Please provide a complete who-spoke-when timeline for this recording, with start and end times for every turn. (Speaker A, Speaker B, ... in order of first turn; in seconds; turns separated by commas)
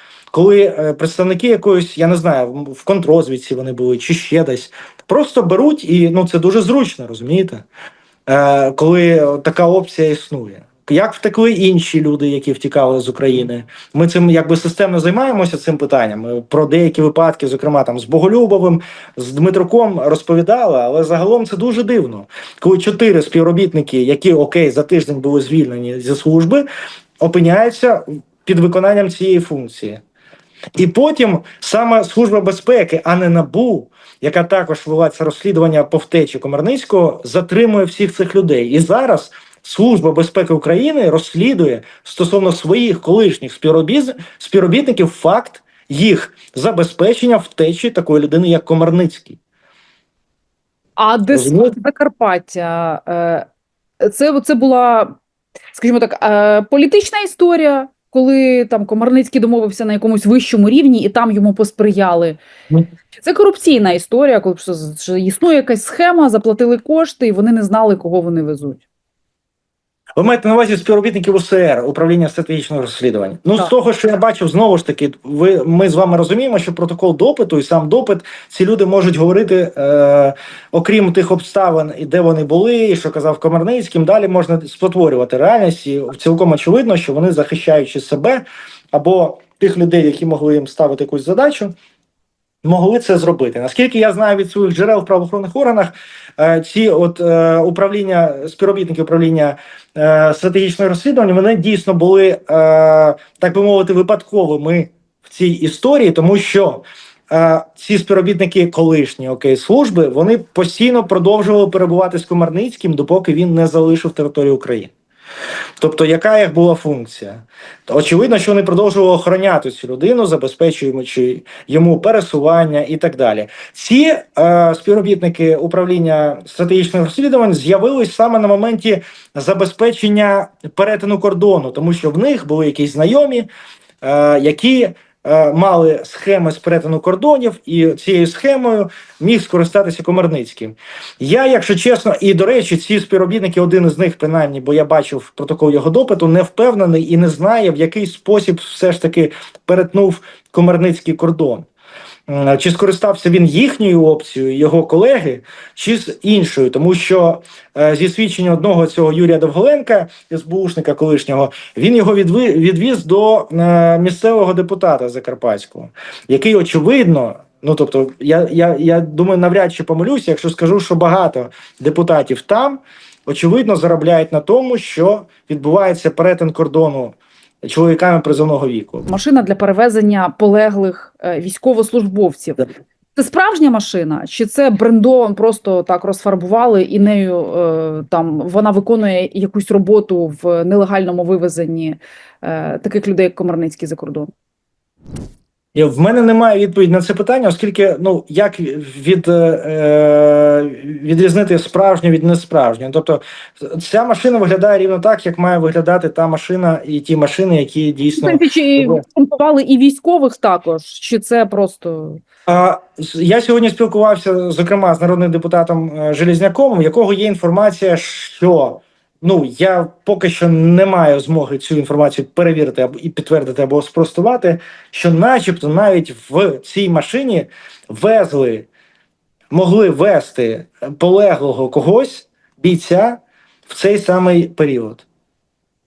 Speaker A: 0.3-7.7, Speaker A: 8.3-26.7, Speaker A: 27.2-30.0, Speaker A: 30.8-49.4, Speaker B: 51.0-53.5, Speaker A: 51.3-51.8, Speaker B: 54.0-55.2, Speaker B: 55.7-62.4, Speaker B: 63.2-68.8, Speaker A: 70.2-91.7, Speaker A: 92.6-114.9, Speaker A: 115.8-133.5, Speaker A: 134.0-151.7, Speaker A: 152.3-179.1, Speaker B: 179.1-194.3, Speaker A: 195.8-209.0, Speaker B: 208.1-212.2, Speaker A: 212.5-228.7, Speaker A: 229.5-235.1